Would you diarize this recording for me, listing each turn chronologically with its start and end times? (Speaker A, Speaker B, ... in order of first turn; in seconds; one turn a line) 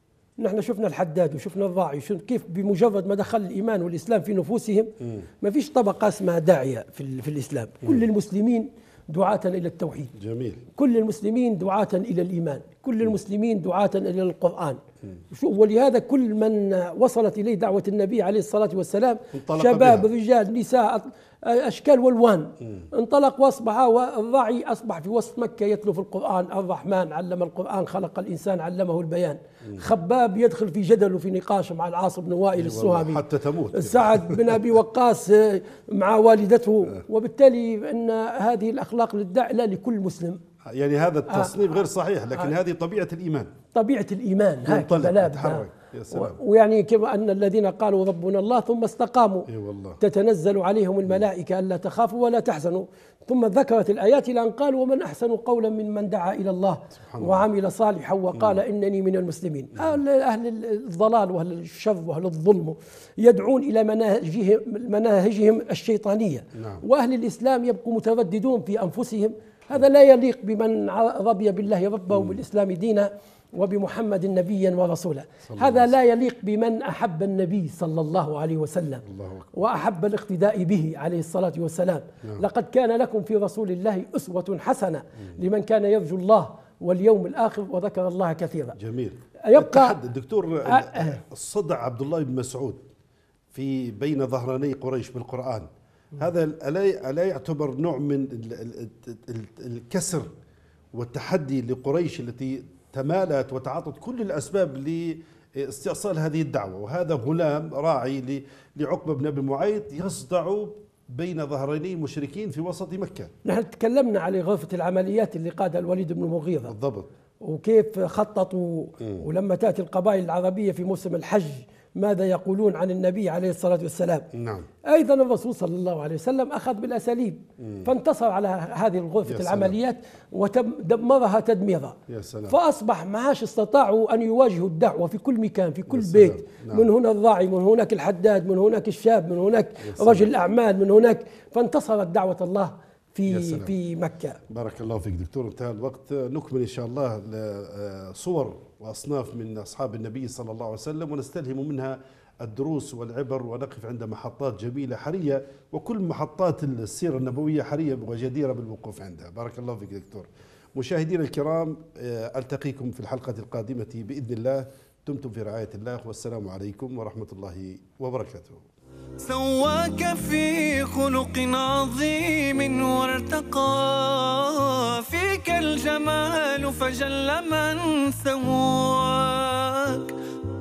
Speaker A: 0.4-10.1
Speaker B: 5.0-5.2
Speaker B: 10.1-10.6
Speaker A: 10.8-40.4
Speaker B: 19.3-20.1
Speaker B: 32.5-34.6
Speaker B: 40.7-43.5
Speaker A: 41.3-41.6
Speaker A: 43.7-49.5
Speaker B: 44.6-46.4
Speaker B: 49.5-50.0
Speaker A: 50.0-88.8
Speaker B: 57.0-57.4
Speaker B: 66.5-66.8
Speaker B: 75.5-75.9
Speaker B: 79.0-79.5
Speaker B: 88.8-92.8
Speaker A: 89.4-90.0
Speaker A: 90.7-91.2
Speaker B: 93.5-100.3
Speaker B: 100.9-113.3
Speaker A: 113.4-116.7
Speaker B: 116.7-117.1
Speaker A: 117.4-124.3
Speaker B: 119.0-119.2
Speaker B: 124.3-124.7
Speaker A: 124.8-132.0
Speaker B: 127.6-127.9
Speaker B: 129.2-129.8
Speaker B: 132.1-132.6
Speaker A: 132.5-144.4
Speaker B: 135.9-136.9
Speaker B: 139.8-140.3
Speaker B: 143.3-143.7
Speaker B: 144.5-168.6
Speaker C: 169.2-180.2